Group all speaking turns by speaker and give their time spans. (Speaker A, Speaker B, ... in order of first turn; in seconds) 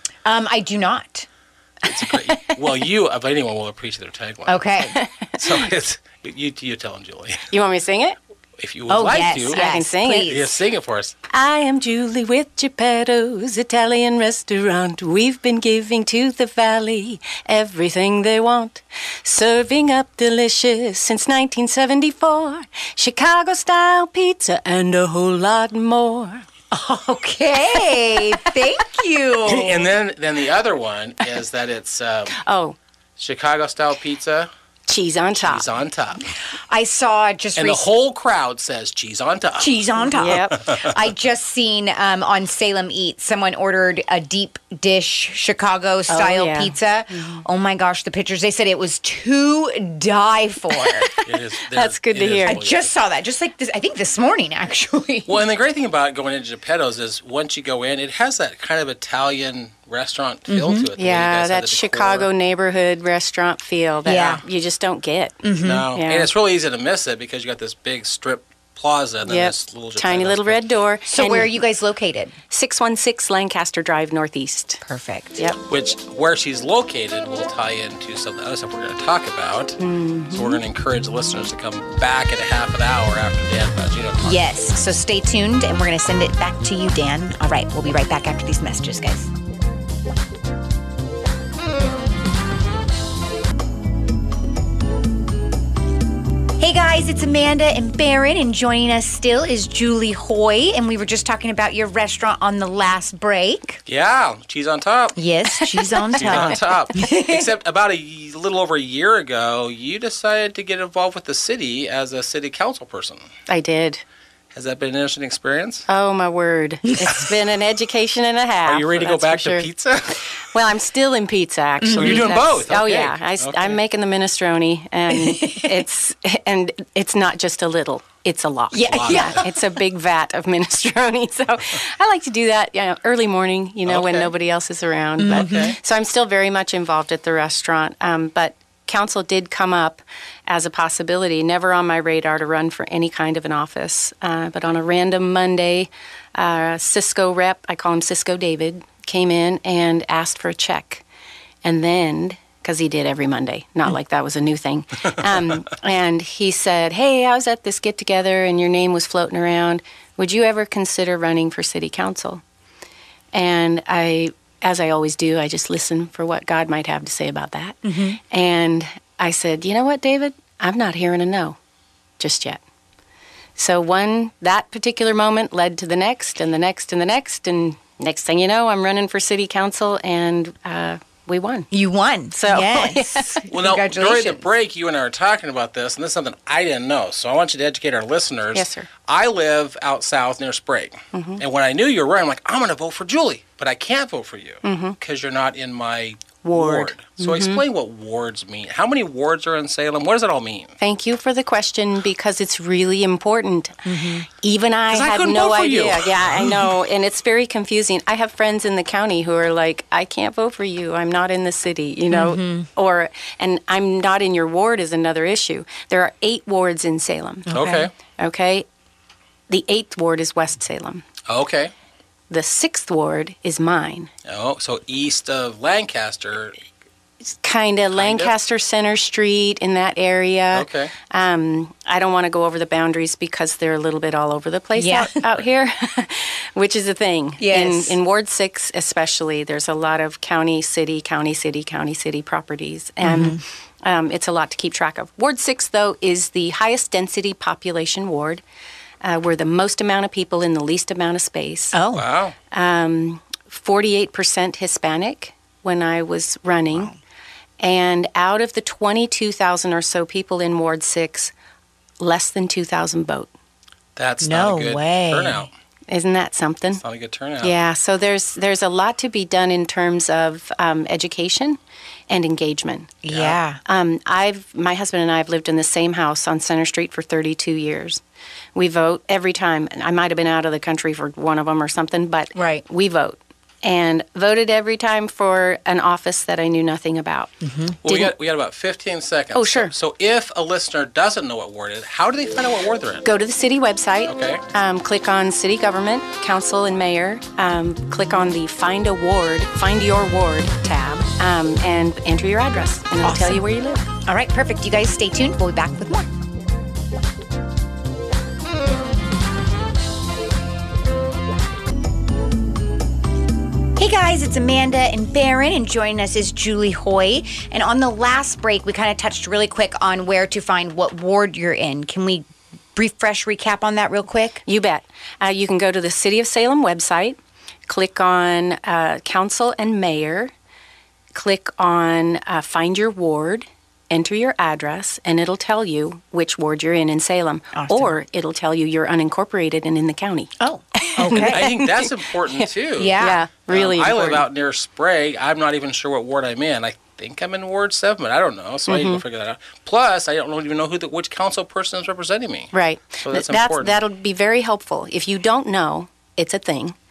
Speaker A: 0.2-1.3, 4.5-5.0, 8.9-10.5, 26.7-29.9, 36.7-37.9, 39.6-51.1, 52.5-55.4, 60.5-60.9, 64.0-64.4, 65.4-65.9, 71.1-72.3, 74.8-75.5, 84.2-89.3, 96.6-103.8, 105.2-107.5, 121.8-122.5, 125.1-125.8, 128.7-129.7, 135.2-135.8, 167.8-168.2, 181.7-184.5, 203.8-204.3, 212.1-212.7, 217.5-217.9, 234.8-235.2, 237.4-238.0, 243.0-243.4, 251.7-252.0, 264.2-265.5, 273.0-273.6, 282.4-282.6, 287.4-287.8, 303.0-303.4, 304.1-306.1, 313.8-322.2, 322.8-324.4, 337.5-337.9, 340.4-341.4, 342.8-343.2
Speaker B: 1.8-4.6, 5.3-7.4, 8.6-9.7, 10.2-11.2, 29.4-32.4, 33.2-34.5, 35.4-36.2, 37.6-39.8, 40.5-40.9, 51.2-53.0, 55.3-62.3, 65.6-70.6, 75.7-79.8, 80.3-84.5, 103.9-105.2, 106.1-113.2, 114.5-115.9, 118.7-120.2, 121.9-123.8, 128.9-129.4, 133.9-134.3, 135.3-135.8, 183.5-200.8, 204.9-206.7, 217.5-217.9, 221.3-221.7, 224.2-226.6, 227.9-228.3, 230.5-230.9, 251.9-252.3, 264.0-265.5, 266.8-267.6, 273.1-273.4, 287.8-293.1, 294.1-294.4, 341.1-353.8
Speaker C: 2.0-2.6, 4.9-5.3, 7.5-8.2, 9.5-10.3, 11.3-26.4, 28.0-28.4, 32.4-32.8, 34.9-35.7, 40.0-40.5, 46.1-47.4, 50.8-52.6, 61.0-65.4, 65.9-66.3, 69.2-71.5, 72.5-74.8, 79.8-80.6, 105.5-106.4, 113.5-114.0, 115.9-119.7, 120.5-151.0, 151.6-162.4, 163.3-171.6, 172.2-172.6, 173.6-181.7, 182.3-183.4, 188.5-188.9, 191.1-191.4, 194.6-195.0, 196.4-197.6, 200.8-217.5, 218.2-218.7, 219.5-221.0, 222.3-224.1, 227.2-248.4, 249.0-251.8, 252.5-256.9, 257.6-261.3, 262.0-263.3, 265.9-266.8, 267.4-272.9, 273.6-278.0, 278.6-287.3, 287.9-288.1, 289.3-289.7, 293.0-303.9, 324.5-330.3, 331.1-344.3, 348.7-349.0, 352.5-356.8